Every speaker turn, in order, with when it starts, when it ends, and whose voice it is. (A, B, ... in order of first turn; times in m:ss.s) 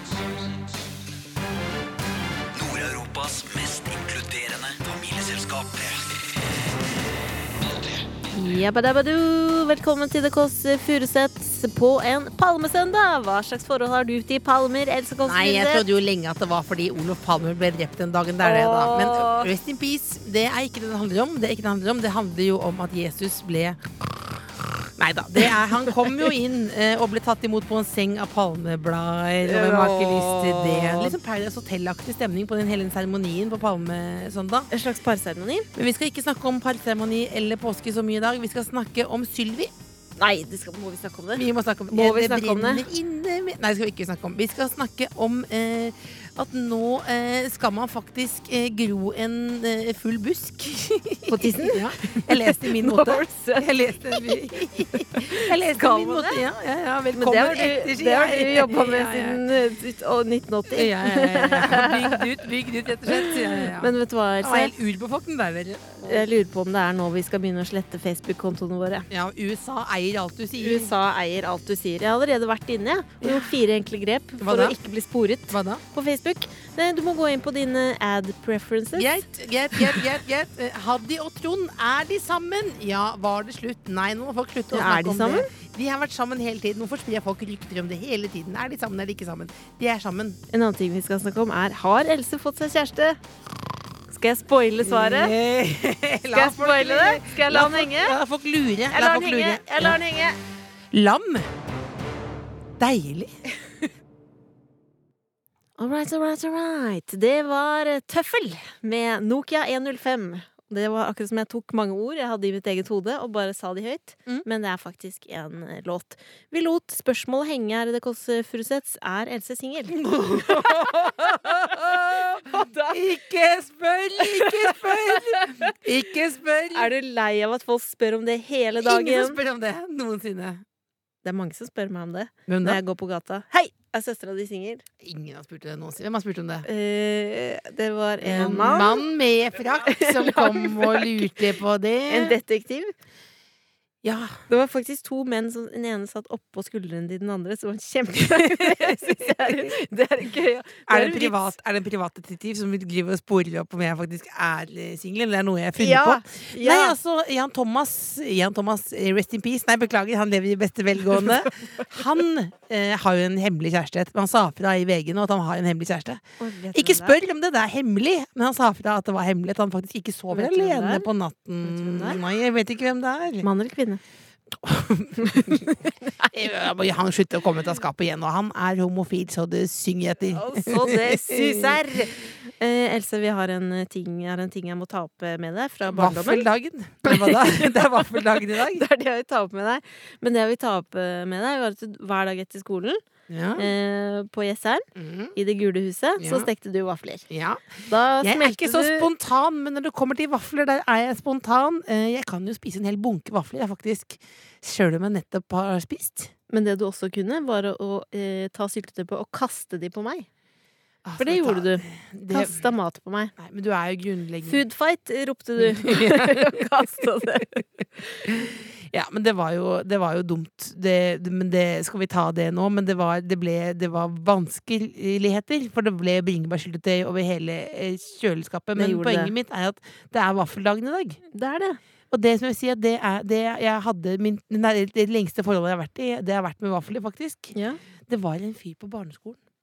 0:02.5-0:06.3 A
0:07.6-0:08.0 A
0:08.3-0:15.8 B
0:15.2-0:23.8 C
0:18.4-0:19.5 B
0:25.0-0:34.7 C
0:29.4-0:31.2 B
0:34.7-0:35.7 B
0:35.8-0:39.7 C
0:40.2-0:42.9 B
0:41.4-0:59.4 C
0:51.3-0:53.7 B
0:54.9-0:56.4 B
0:57.2-1:02.3 B
1:00.8-1:06.2 C
1:03.1-1:04.7 B
1:06.0-1:09.1 B
1:09.1-1:10.9 C
1:10.6-1:19.2 B
1:13.2-1:13.5 C
1:14.4-1:14.8 C
1:15.5-1:15.8 C
1:19.0-1:30.4 C
1:24.7-1:25.5 B
1:30.5-1:33.2 B
1:34.1-1:35.3 B
1:34.8-1:40.0 C
1:36.3-1:38.2 B
1:38.9-1:40.4 B
1:40.9-1:41.5 C
1:42.8-1:43.3 C
1:45.8-2:03.2 B
1:59.9-2:06.9 C
2:04.2-2:05.8 B
2:06.7-2:09.4 B
2:08.8-2:10.6 C
2:11.2-2:14.8 B
2:12.5-2:12.8 C
2:15.0-2:16.7 C
2:16.7-2:19.0 B
2:18.2-2:22.4 C
2:19.9-2:21.4 B
2:22.1-2:22.9 B
2:24.0-2:24.4 C
2:24.5-2:31.6 B
2:28.4-2:29.8 C
2:30.9-2:46.2 C
2:35.8-2:37.0 B
2:46.4-2:47.2 B
2:46.7-2:53.5 C
2:50.3-2:51.1 B
2:51.6-2:52.2 B
2:53.4-2:54.0 B
2:54.6-2:55.7 C
2:55.2-2:56.4 B
2:56.3-3:01.8 C
3:00.3-3:06.5 B
3:05.9-3:08.8 C
3:07.0-3:13.0 B
3:13.3-3:13.7 C
3:13.6-3:17.3 B
3:15.0-3:15.4 C
3:16.2-3:16.5 C
3:17.3-3:26.3 C
3:17.8-3:19.1 B
3:26.5-3:30.3 B
3:31.0-3:32.7 C
3:31.2-3:33.3 B
3:33.4-3:34.6 C
3:34.4-3:38.3 B
3:35.6-3:37.0 C
3:38.2-3:51.2 C
3:48.8-3:49.3 B
3:51.3-3:51.8 B
3:52.1-3:59.4 C
3:57.5-3:57.8 B